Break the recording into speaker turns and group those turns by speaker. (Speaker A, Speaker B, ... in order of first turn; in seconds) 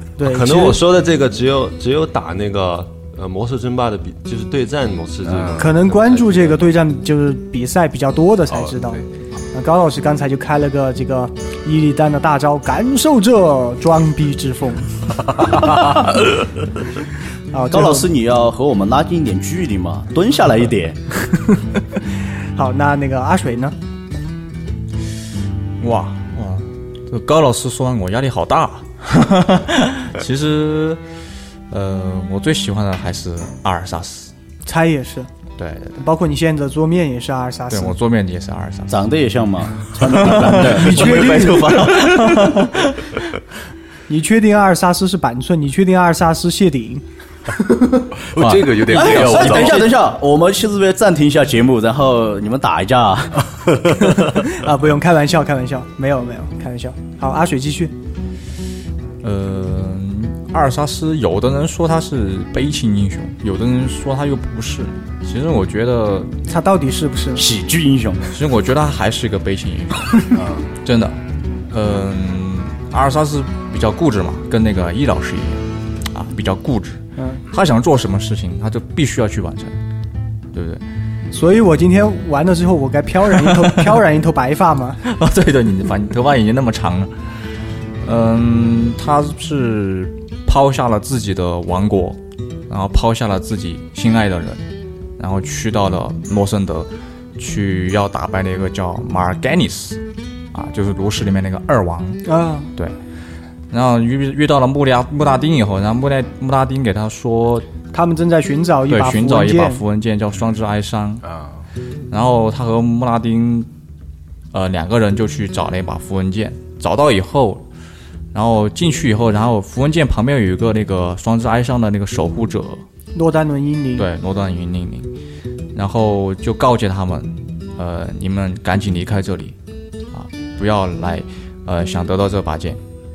Speaker A: 0.2-0.8, 5.6-9.0, 9.5-14.9, 17.5-18.1, 22.6-23.7, 34.6-35.3, 36.0-37.9, 40.6-41.9, 44.1-47.0, 47.5-48.0, 54.0-57.9, 66.5-67.5, 77.2-77.4, 81.3-85.0, 102.2-102.7, 107.9-109.8, 123.1-124.1
Speaker B: 0.2-6.7
Speaker C: 5.2-5.6, 8.5-9.0, 48.2-49.9, 111.2-111.6
Speaker D: 17.7-21.0, 38.9-42.7, 48.4-53.7, 67.3-68.3
Speaker E: 25.8-31.0, 31.7-34.3, 35.6-36.0, 37.7-39.0, 40.0-42.9, 59.2-66.3, 68.3-79.8, 80.5-80.8, 83.3-84.0, 85.0-87.3, 88.0-94.6, 95.2-100.0, 100.5-103.0, 103.7-107.7, 108.9-111.2, 112.1-113.7, 114.5-117.6, 118.3-122.8, 124.0-125.1, 125.7-129.6, 130.1-132.8